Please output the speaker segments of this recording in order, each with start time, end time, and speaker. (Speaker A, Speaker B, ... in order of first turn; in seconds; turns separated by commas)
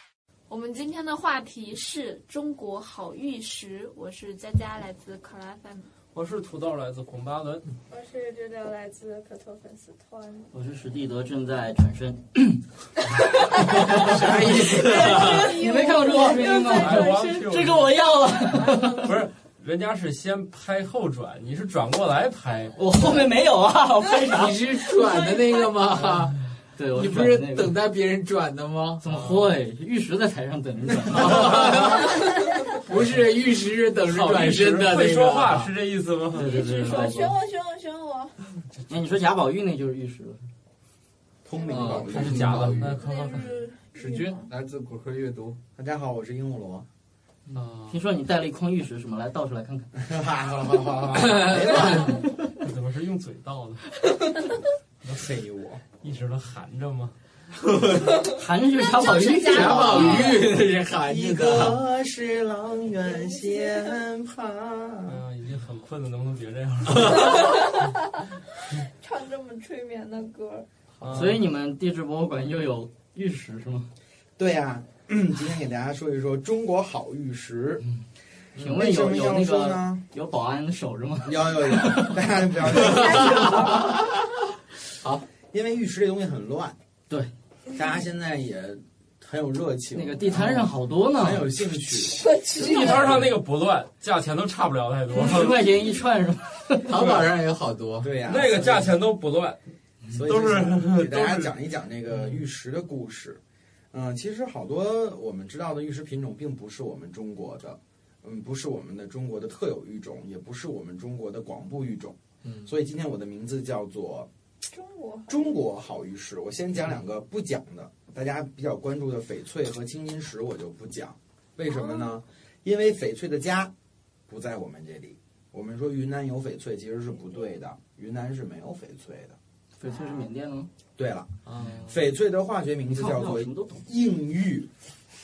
Speaker A: 0.5-5.9, Speaker B: 6.1-7.7, Speaker C: 7.9-10.5, Speaker D: 10.5-12.6, Speaker D: 13.5-19.1, Speaker C: 13.6-14.0, Speaker E: 13.9-15.5, Speaker C: 14.6-17.6, Speaker B: 16.7-17.9, Speaker C: 18.5-19.1, Speaker B: 19.0-22.8, Speaker D: 22.8-24.9, Speaker E: 24.3-26.4, Speaker C: 25.0-25.5, Speaker D: 26.8-27.7, Speaker E: 26.9-29.0, Speaker D: 29.0-32.1, Speaker E: 31.2-35.7, Speaker B: 34.0-37.4, Speaker C: 36.3-38.3, Speaker D: 36.3-37.3, Speaker D: 38.9-40.4, Speaker F: 41.4-42.7, Speaker C: 41.5-42.0, Speaker E: 41.7-43.0, Speaker B: 42.0-43.6, Speaker C: 42.9-44.5, Speaker E: 43.9-45.6, Speaker F: 45.8-46.9, Speaker D: 47.5-49.9, Speaker E: 47.5-48.0, Speaker F: 50.0-52.2, Speaker E: 51.1-52.1, Speaker B: 52.4-53.8, Speaker F: 55.0-55.8, Speaker B: 56.0-57.1, Speaker D: 58.2-60.3, Speaker A: 58.9-60.4, Speaker E: 59.2-61.8, Speaker F: 59.6-60.2, Speaker F: 61.0-65.2, Speaker C: 63.1-63.9, Speaker B: 65.0-67.4, Speaker C: 69.0-70.7, Speaker B: 71.0-71.4, Speaker D: 71.1-73.9, Speaker F: 74.4-77.8, Speaker D: 78.6-82.2, Speaker F: 78.6-80.0, Speaker F: 81.2-83.7, Speaker E: 82.8-84.0, Speaker D: 83.2-83.7, Speaker F: 85.5-86.8, Speaker F: 87.7-92.3, Speaker D: 89.9-91.5, Speaker C: 92.4-92.8, Speaker A: 92.4-93.2, Speaker B: 92.5-95.6, Speaker F: 92.8-93.3, Speaker D: 95.1-97.0, Speaker E: 96.8-98.1, Speaker F: 98.0-98.9, Speaker B: 98.2-99.6, Speaker F: 100.1-103.4, Speaker B: 100.2-101.5, Speaker F: 103.9-114.3, Speaker E: 112.4-112.7, Speaker C: 114.7-115.7, Speaker F: 115.3-123.7, Speaker F: 124.3-129.4, Speaker D: 129.8-130.7, Speaker C: 129.9-130.2, Speaker F: 131.0-134.7, Speaker E: 131.4-132.0, Speaker D: 132.9-133.8